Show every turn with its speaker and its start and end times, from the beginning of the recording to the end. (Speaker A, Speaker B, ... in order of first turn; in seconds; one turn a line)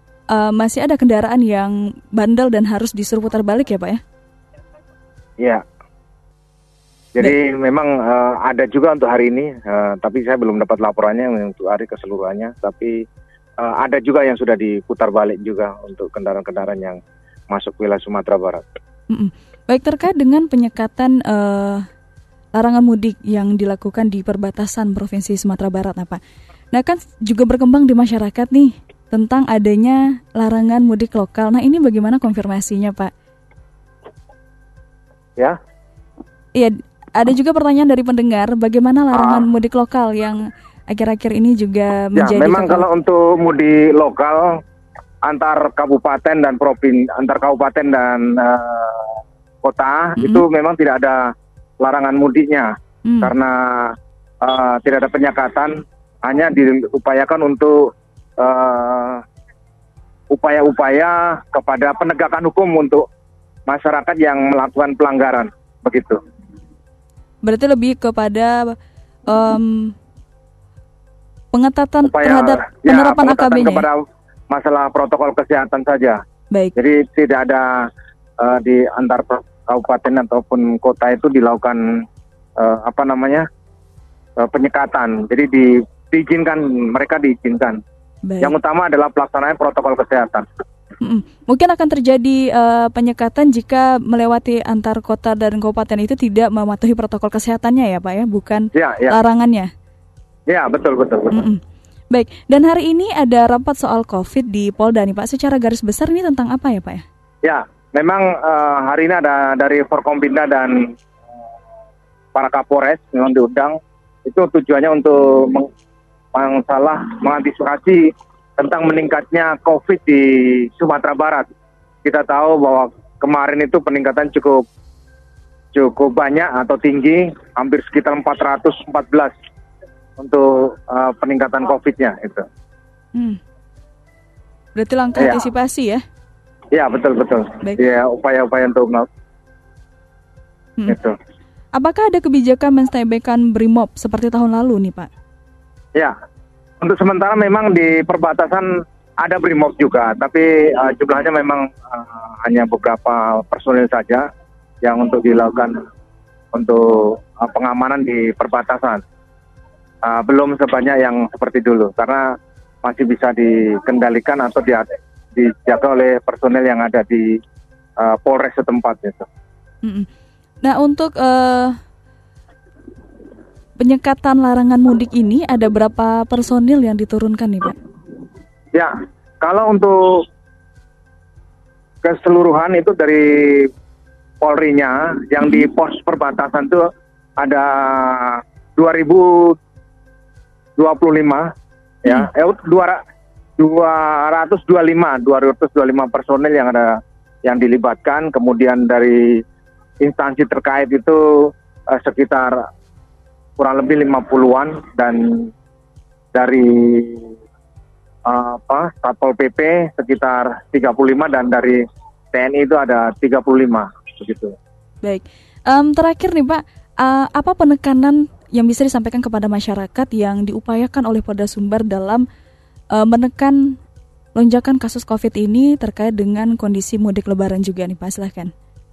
Speaker A: 0.3-4.0
Speaker B: 7.2-13.0
Speaker B: 13.6-18.6
Speaker A: 19.1-21.9
Speaker A: 22.6-26.2
Speaker A: 26.7-33.1
Speaker A: 36.5-42.8
Speaker B: 39.1-39.5
Speaker B: 42.1-44.6
Speaker B: 45.2-59.2
Speaker A: 53.0-53.3
Speaker B: 60.3-63.0
Speaker B: 63.7-66.2
Speaker A: 67.4-68.8
Speaker A: 69.3-69.9
Speaker A: 71.5-73.9
Speaker B: 72.0-74.0
Speaker B: 74.5-76.2
Speaker B: 76.8-82.0
Speaker B: 82.6-83.5
Speaker B: 84.4-87.8
Speaker A: 88.3-88.5
Speaker B: 88.4-90.5
Speaker A: 91.0-99.7
Speaker B: 98.7-99.2
Speaker B: 100.5-101.4
Speaker A: 101.3-101.6
Speaker A: 102.1-107.0
Speaker B: 107.4-110.9
Speaker B: 112.3-115.7
Speaker B: 116.3-121.5
Speaker B: 122.0-124.6
Speaker B: 125.7-129.3
Speaker B: 130.2-132.5
Speaker A: 134.8-136.0
Speaker B: 135.2-135.5
Speaker B: 136.7-139.1
Speaker B: 140.9-141.2
Speaker A: 141.7-145.1
Speaker B: 146.8-148.7
Speaker B: 149.2-154.3
Speaker B: 154.8-155.8
Speaker B: 156.5-159.0
Speaker B: 160.0-167.3
Speaker B: 168.0-169.3
Speaker A: 170.6-171.8
Speaker A: 173.8-177.8
Speaker B: 178.7-180.2
Speaker B: 182.0-183.7
Speaker B: 184.4-186.9
Speaker B: 187.4-189.6
Speaker B: 190.8-191.5
Speaker B: 192.0-193.0
Speaker B: 193.6-199.4
Speaker B: 200.0-202.7
Speaker B: 203.6-205.5
Speaker B: 206.3-207.3
Speaker B: 208.3-211.8
Speaker B: 212.3-214.6
Speaker A: 215.0-222.2
Speaker A: 222.9-223.8
Speaker A: 224.3-228.5